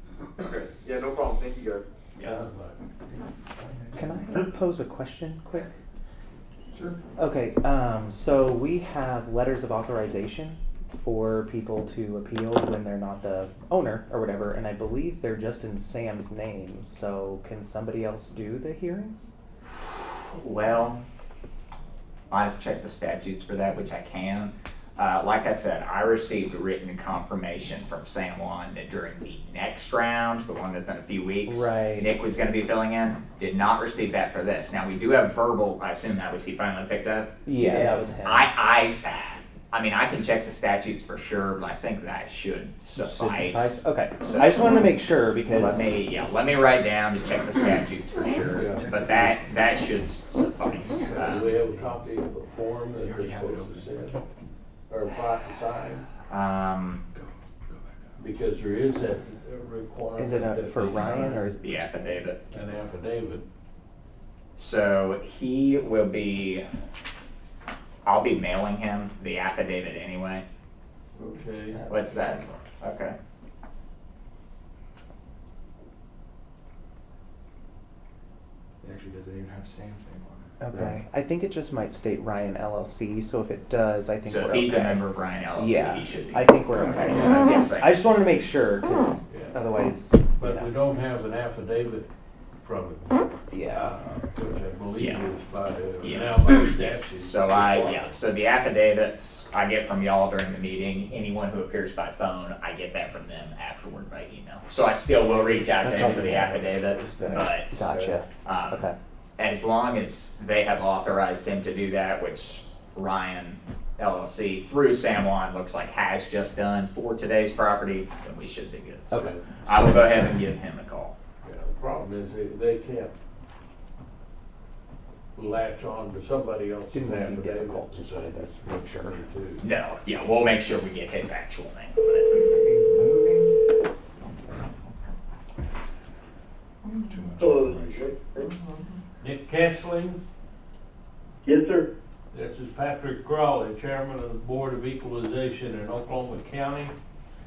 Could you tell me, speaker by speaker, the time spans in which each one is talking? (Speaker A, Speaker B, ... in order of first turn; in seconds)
Speaker A: 0.4-2.3, 137.4-138.5, 141.4-141.9
Speaker B: 2.2-2.8, 48.5-49.3, 51.1-54.2, 54.9-56.1, 58.2-61.4, 62.5-63.5, 71.2-71.8, 89.3-89.6, 90.4-92.1, 92.6-98.1, 121.4-123.1, 125.3-129.6, 139.2-140.2, 142.3-146.9
Speaker C: 3.9-5.8, 7.2-19.3, 31.5-32.1, 37.4-38.5, 43.0-45.9, 60.2-62.3, 80.6-90.7, 93.5-93.9, 105.8-106.5, 107.2-109.0, 119.1-120.4, 126.9-129.2
Speaker D: 20.3-21.0, 22.3-44.9, 45.4-51.5, 56.3-57.0, 61.6-62.4, 64.6-66.7, 68.0-70.5, 71.9-73.2, 84.2-88.0, 95.0-95.2, 96.0-107.8, 108.4-108.8, 109.4-121.1, 129.6-132.6
Speaker E: 48.6-49.7, 51.1-52.1, 53.0-54.0, 57.1-58.0, 78.8-80.5, 105.7-108.2, 137.1-138.1
Speaker F: 132.3-133.5, 136.8-137.5, 138.3-139.0